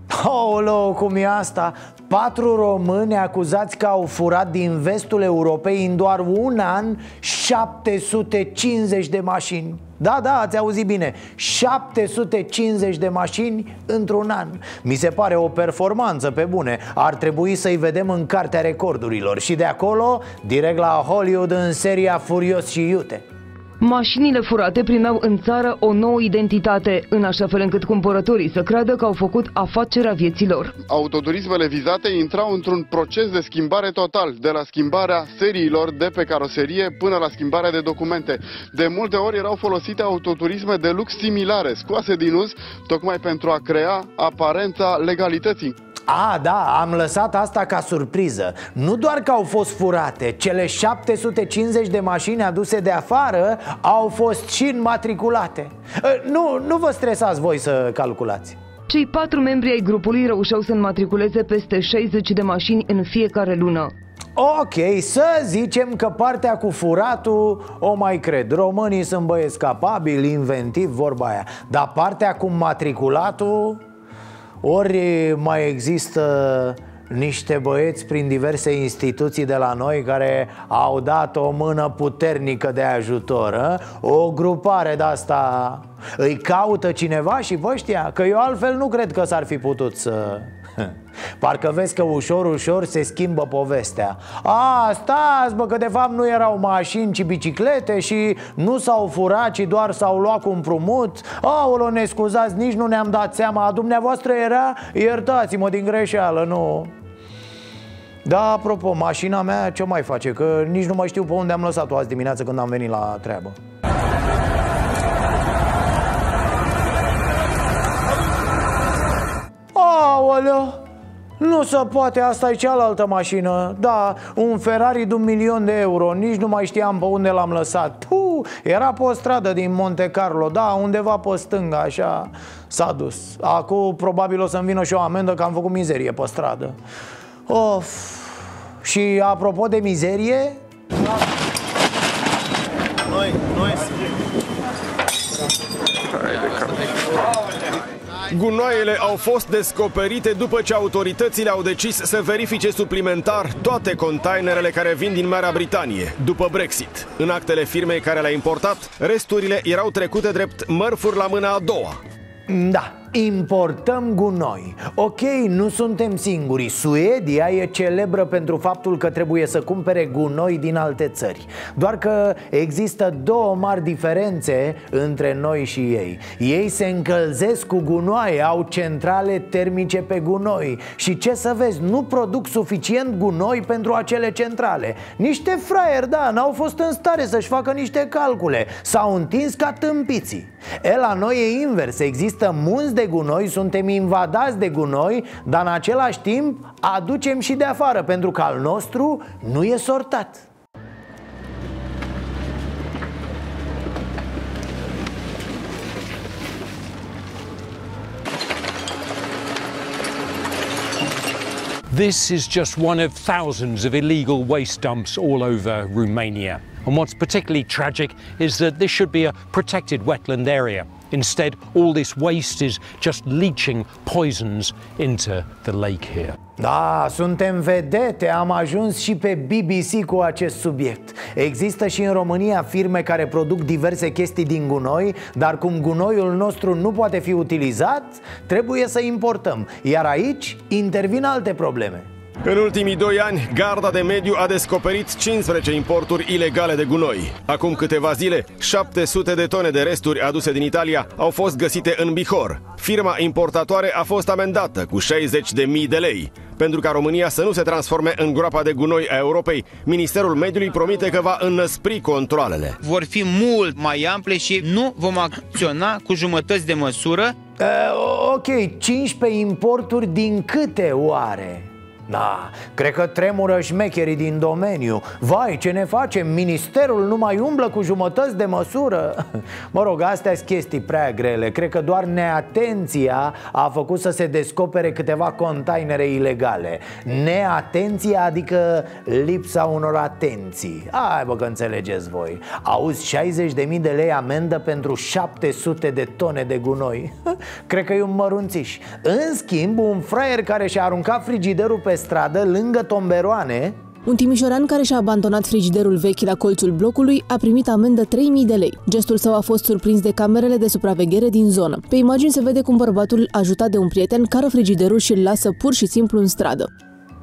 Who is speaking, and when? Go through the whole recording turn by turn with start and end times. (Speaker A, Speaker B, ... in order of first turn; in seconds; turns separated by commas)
Speaker A: 0.1-23.2, Speaker B: 23.8-30.7, Speaker C: 30.9-45.8, Speaker A: 46.1-58.6, Speaker B: 58.9-63.9, Speaker A: 64.4-73.8, Speaker A: 74.6-106.9, Speaker A: 108.2-113.6, Speaker A: 119.7-120.8, Speaker A: 121.4-136.8, Speaker A: 137.5-140.6, Speaker D: 148.3-162.0, Speaker A: 162.5-200.5, Speaker E: 211.9-226.4, Speaker A: 226.6-242.1, Speaker D: 242.4-262.8, Speaker F: 262.8-267.4, Speaker A: 267.6-303.8, Speaker G: 304.1-316.7